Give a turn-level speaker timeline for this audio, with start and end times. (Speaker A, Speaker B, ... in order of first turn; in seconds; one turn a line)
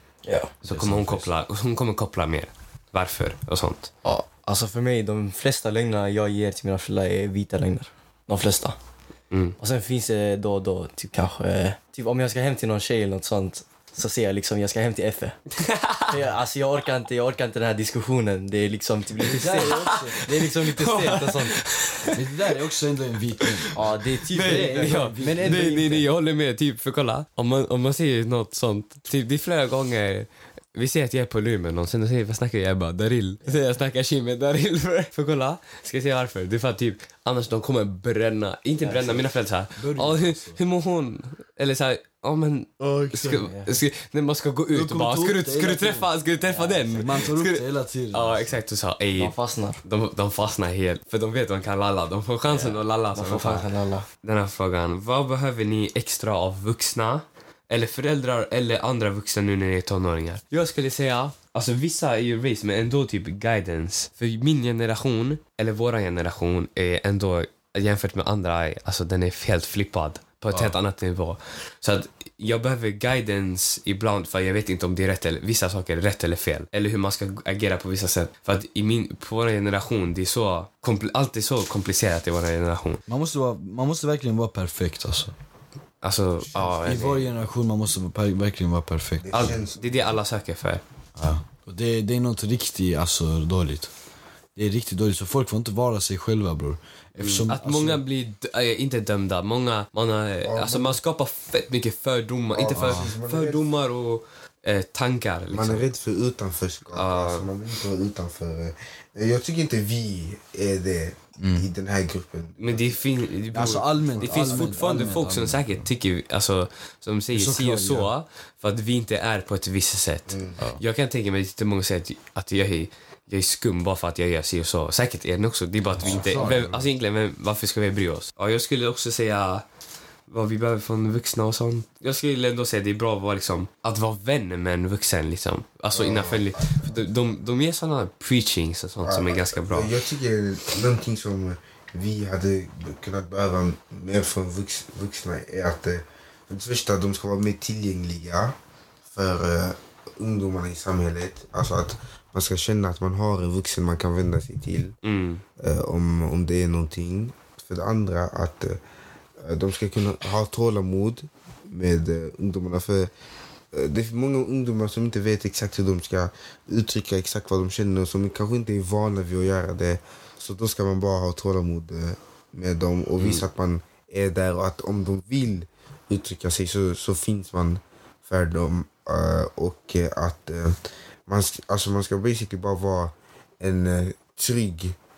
Speaker A: 0.2-0.5
Speaker B: 0.6-3.9
Speaker C: 0.7-1.3
Speaker A: 4.0-8.8
Speaker B: 9.3-9.6
Speaker A: 9.6-15.4
Speaker B: 15.5-16.2
Speaker A: 16.1-21.6
Speaker C: 19.2-20.2
Speaker B: 19.6-22.2
Speaker C: 22.1-25.7
Speaker B: 23.4-23.7
Speaker A: 23.7-26.1
Speaker B: 24.3-53.7
Speaker A: 38.8-39.2
Speaker C: 39.8-40.6
Speaker C: 42.8-43.4
Speaker A: 43.3-43.7
Speaker C: 44.7-46.1
Speaker A: 46.4-47.1
Speaker C: 47.0-48.6
Speaker A: 49.1-49.8
Speaker A: 52.5-54.1
Speaker B: 54.2-83.0
Speaker C: 83.1-85.3
Speaker B: 86.0-87.3
Speaker C: 86.8-89.6
Speaker D: 89.2-90.2
Speaker B: 89.3-90.8
Speaker C: 91.2-93.9
Speaker C: 94.5-98.0
Speaker B: 97.2-105.8
Speaker D: 100.4-101.0
Speaker D: 102.5-103.7
Speaker C: 102.8-103.1
Speaker D: 105.5-113.0
Speaker B: 106.9-107.5
Speaker C: 111.4-111.7
Speaker B: 112.6-129.6
Speaker C: 113.5-115.9
Speaker D: 114.2-115.1
Speaker C: 117.3-118.1
Speaker D: 120.3-120.6
Speaker C: 125.9-126.7
Speaker D: 126.0-126.8
Speaker B: 130.3-139.9
Speaker D: 135.9-137.0
Speaker D: 139.0-148.6
Speaker D: 149.1-155.0
Speaker B: 155.0-155.4
Speaker D: 155.6-158.8
Speaker D: 159.4-163.1
Speaker D: 163.7-184.9
Speaker B: 173.2-173.4